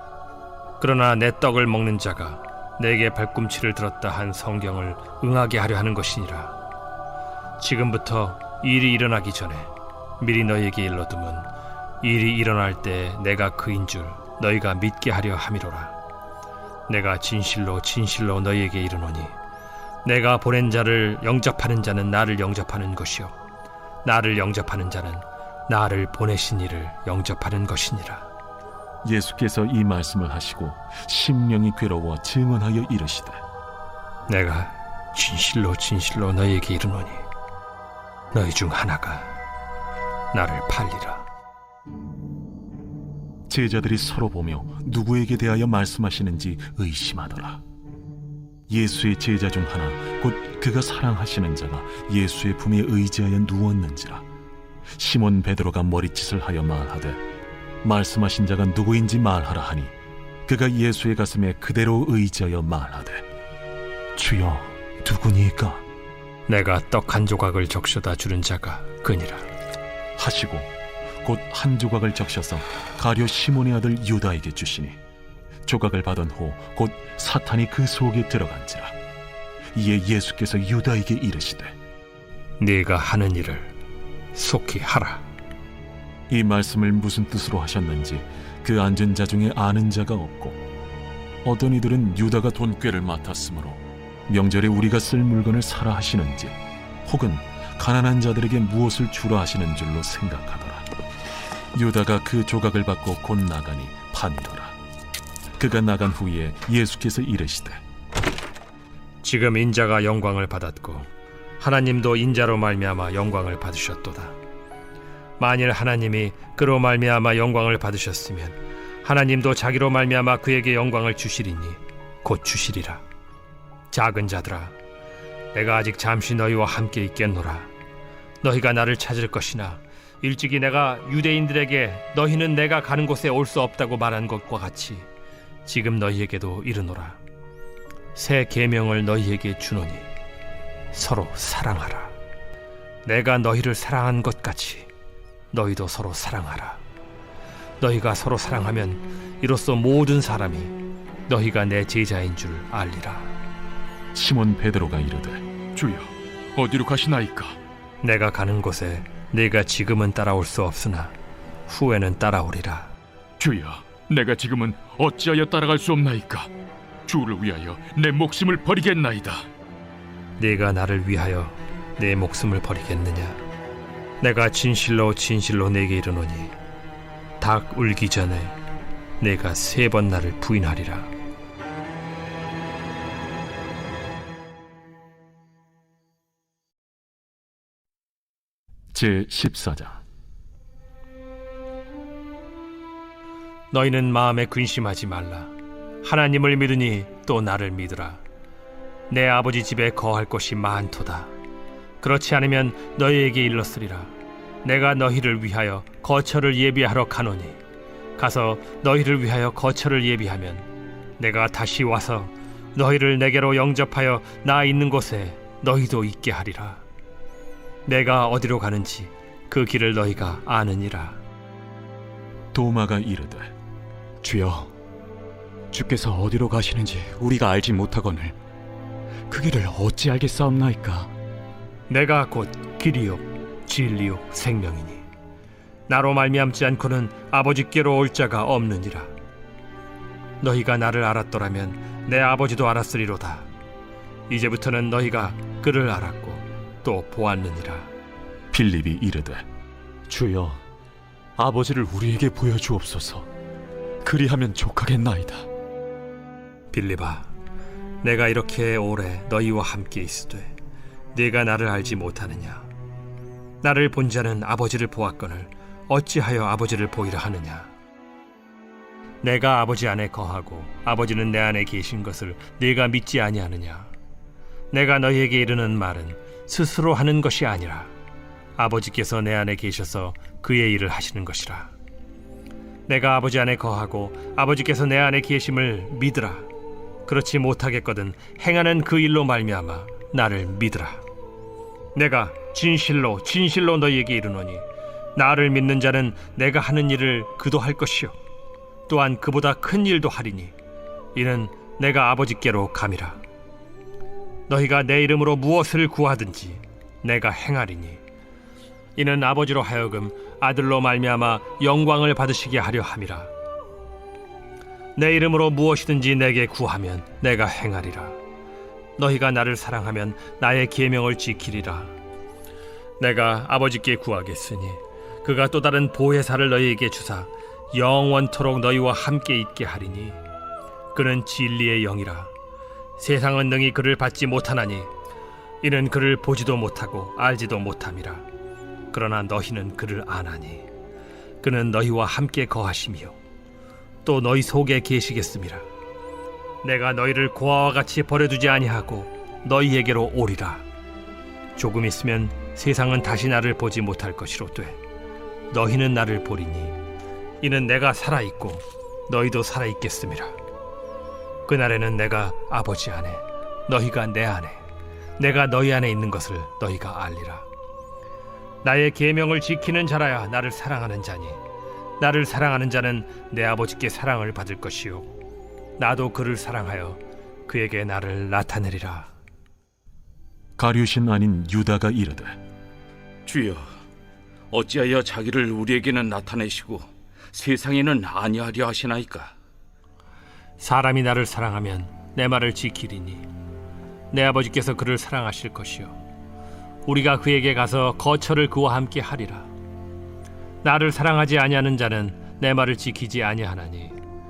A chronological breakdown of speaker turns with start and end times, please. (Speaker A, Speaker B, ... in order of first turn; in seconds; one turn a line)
Speaker A: 0.8-6.5
Speaker A: 7.6-11.5
Speaker A: 12.0-15.9
Speaker A: 16.9-19.3
Speaker A: 20.0-23.3
Speaker A: 24.0-28.3
Speaker B: 29.0-33.4
Speaker A: 34.3-37.2
Speaker A: 38.3-39.3
Speaker A: 40.3-41.2
Speaker B: 43.5-47.6
Speaker B: 48.7-54.2
Speaker B: 55.0-57.2
Speaker B: 57.8-59.9
Speaker B: 60.5-63.2
Speaker B: 64.2-65.8
Speaker A: 66.5-69.5
Speaker B: 70.2-70.7
Speaker B: 71.2-75.0
Speaker B: 75.7-78.9
Speaker B: 79.7-81.7
Speaker A: 82.6-83.7
Speaker A: 84.3-85.2
Speaker B: 86.3-90.6
Speaker B: 91.4-100.9
Speaker B: 101.7-104.8
Speaker B: 105.6-107.8
Speaker A: 109.2-111.1
Speaker A: 111.6-114.3
Speaker A: 115.4-123.0
Speaker A: 123.9-124.7
Speaker A: 125.5-127.7
Speaker A: 128.4-135.1
Speaker A: 135.6-137.2
Speaker A: 138.1-140.1
Speaker A: 140.9-142.1
Speaker A: 143.0-144.9
Speaker A: 145.5-146.8
Speaker A: 147.8-150.7
Speaker A: 151.3-153.3
Speaker B: 154.1-155.4
Speaker C: 155.8-157.6
Speaker A: 158.0-161.1
Speaker A: 161.7-162.9
Speaker C: 163.4-166.5
Speaker C: 167.1-169.4
Speaker A: 170.4-173.4
Speaker A: 174.2-176.5
Speaker A: 177.4-178.6
Speaker A: 179.2-181.1
Speaker B: 188.9-190.0
Speaker A: 193.7-198.2
Speaker A: 199.1-201.3
Speaker A: 202.0-204.1
Speaker A: 204.6-207.6
Speaker A: 208.2-210.7
Speaker A: 211.2-216.8
Speaker A: 217.8-221.2
Speaker B: 222.5-223.5
Speaker D: 224.2-224.7
Speaker D: 225.7-228.3
Speaker D: 229.3-231.1
Speaker A: 231.9-235.0
Speaker A: 235.9-239.1
Speaker A: 240.4-243.5
Speaker A: 244.3-247.9
Speaker B: 248.5-249.4
Speaker D: 250.1-250.6
Speaker D: 251.4-253.3
Speaker D: 254.0-255.5
Speaker A: 256.7-257.3
Speaker A: 258.0-260.5
Speaker A: 261.1-262.7
Speaker A: 263.6-267.7
Speaker A: 269.2-273.9
Speaker A: 274.7-277.9
Speaker A: 278.6-281.7
Speaker A: 282.9-286.5
Speaker A: 287.1-291.0
Speaker A: 291.9-294.6
Speaker A: 295.1-298.1
Speaker A: 298.9-300.5
Speaker A: 301.1-303.2
Speaker A: 304.5-308.0
Speaker A: 308.9-313.3
Speaker A: 314.9-318.1
Speaker A: 319.0-321.9
Speaker A: 323.0-330.2
Speaker A: 330.9-332.3
Speaker A: 333.0-334.9
Speaker A: 335.6-338.2
Speaker A: 338.9-340.7
Speaker A: 341.4-343.1
Speaker A: 344.0-345.6
Speaker A: 346.6-350.6
Speaker A: 351.6-354.8
Speaker A: 355.5-356.8
Speaker A: 357.4-360.3
Speaker A: 361.4-364.6
Speaker A: 365.2-367.4
Speaker A: 368.6-371.4
Speaker A: 372.0-375.1
Speaker A: 375.8-379.1
Speaker B: 380.6-382.4
Speaker C: 383.3-383.6
Speaker E: 384.5-389.3
Speaker C: 384.5-386.7
Speaker C: 387.3-388.8
Speaker A: 390.6-393.2
Speaker A: 394.1-396.0
Speaker A: 396.9-399.5
Speaker A: 400.6-404.0